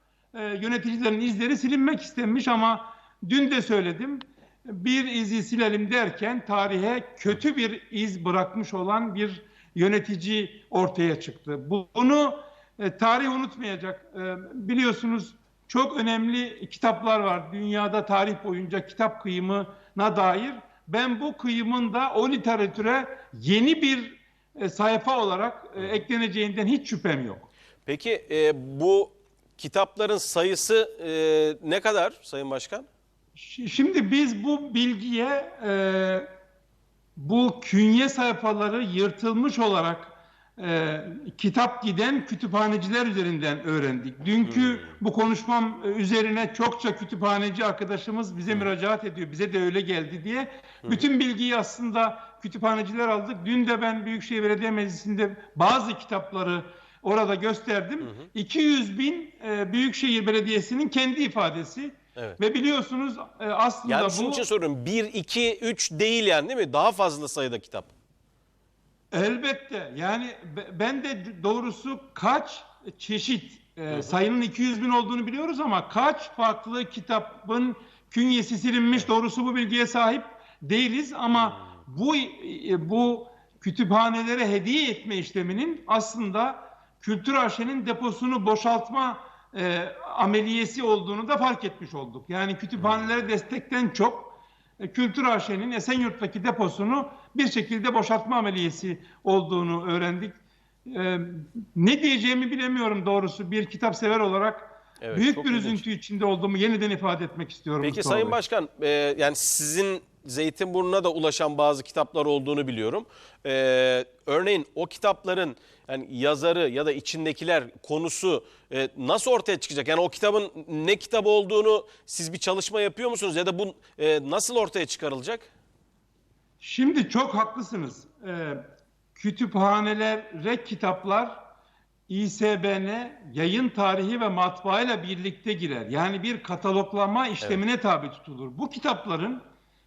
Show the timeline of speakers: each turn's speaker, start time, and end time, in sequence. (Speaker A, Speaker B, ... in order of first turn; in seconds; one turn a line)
Speaker A: 0.3-27.5
Speaker B: 27.9-32.9
Speaker A: 33.4-36.3
Speaker A: 37.2-64.4
Speaker B: 44.5-44.9
Speaker B: 63.9-67.9
Speaker A: 69.1-108.4
Speaker B: 92.8-93.0
Speaker B: 105.0-105.8
Speaker B: 107.8-125.5
Speaker A: 126.6-128.6
Speaker A: 129.2-131.4
Speaker A: 132.1-139.4